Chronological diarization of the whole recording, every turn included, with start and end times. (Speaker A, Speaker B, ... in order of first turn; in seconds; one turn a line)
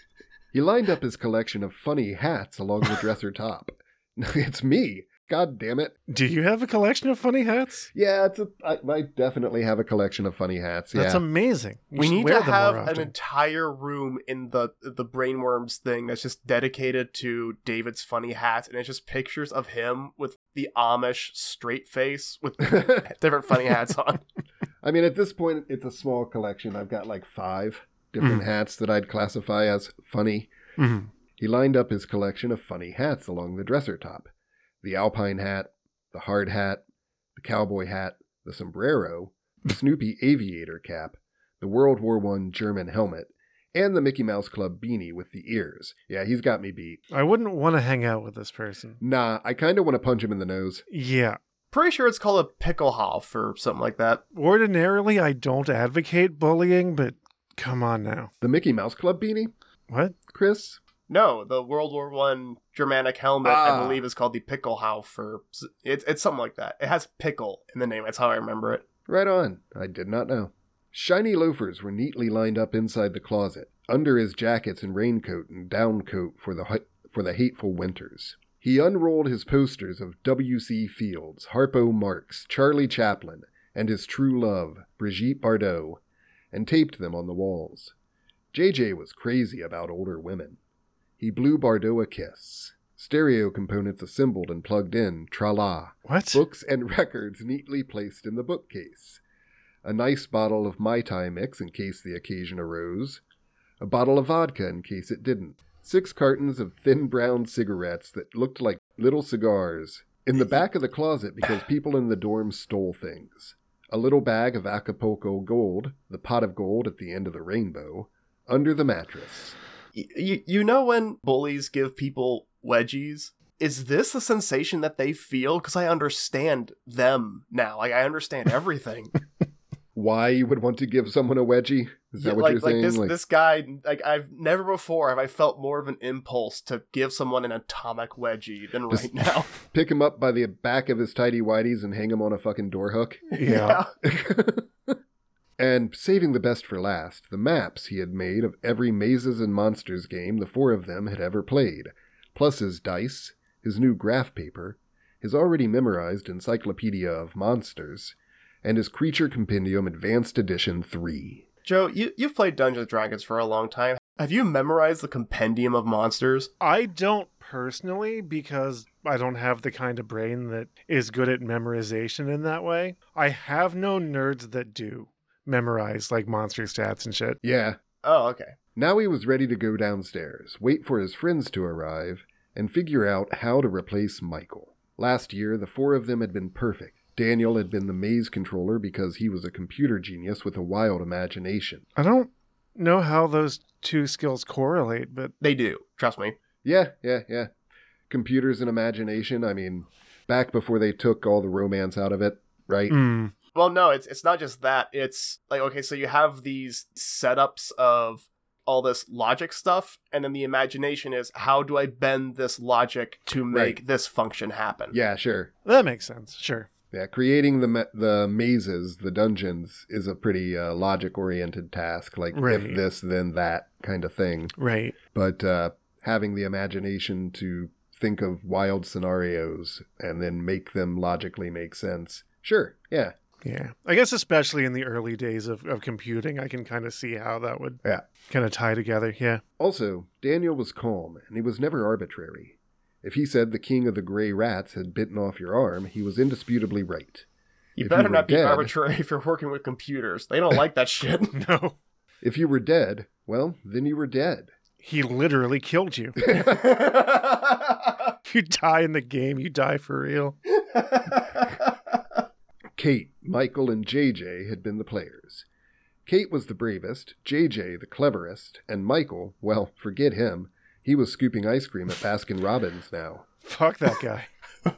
Speaker A: 0.5-5.9
Speaker B: 6.1-7.9
Speaker A: 7.9-11.2
Speaker B: 10.9-13.1
Speaker C: 12.0-24.2
Speaker A: 24.8-30.5
Speaker B: 30.8-31.1
Speaker A: 31.4-34.3
Speaker A: 34.8-36.8
Speaker A: 37.4-47.0
Speaker B: 47.1-49.0
Speaker A: 49.0-50.8
Speaker B: 50.9-51.4
Speaker C: 51.7-54.2
Speaker B: 54.3-58.3
Speaker A: 58.4-59.5
Speaker B: 59.9-60.2
Speaker A: 60.3-60.8
Speaker C: 61.1-68.8
Speaker A: 63.4-64.0
Speaker A: 69.1-86.0
Speaker A: 86.5-87.9
Speaker A: 88.5-90.6
Speaker A: 91.2-99.2
Speaker B: 96.1-96.4
Speaker A: 99.8-103.2
Speaker A: 103.8-119.6
Speaker C: 119.9-129.2
Speaker A: 129.9-133.1
Speaker C: 132.2-139.5
Speaker A: 138.9-143.3
Speaker C: 143.3-143.9
Speaker B: 143.4-143.8
Speaker A: 144.0-144.9
Speaker A: 145.6-161.4
Speaker C: 161.6-166.5
Speaker B: 166.6-177.4
Speaker A: 177.4-177.8
Speaker C: 178.0-178.6
Speaker A: 178.8-191.8
Speaker B: 192.0-195.3
Speaker C: 195.4-196.4
Speaker A: 196.6-197.5
Speaker A: 198.1-203.0
Speaker B: 202.9-203.3
Speaker C: 203.5-215.0
Speaker A: 213.5-213.8
Speaker A: 214.9-215.5
Speaker B: 215.6-216.7
Speaker A: 216.9-224.5
Speaker B: 222.3-222.8
Speaker B: 224.6-224.9
Speaker A: 225.1-233.1
Speaker B: 233.4-239.4
Speaker A: 239.6-247.2
Speaker C: 247.8-251.3
Speaker A: 247.8-248.7
Speaker B: 251.3-251.8
Speaker A: 252.2-254.5
Speaker B: 254.8-256.3
Speaker A: 256.2-256.6
Speaker C: 256.4-257.8
Speaker B: 258.2-260.4
Speaker C: 260.7-261.5
Speaker A: 262.8-265.4
Speaker A: 266.1-273.2
Speaker B: 273.4-274.3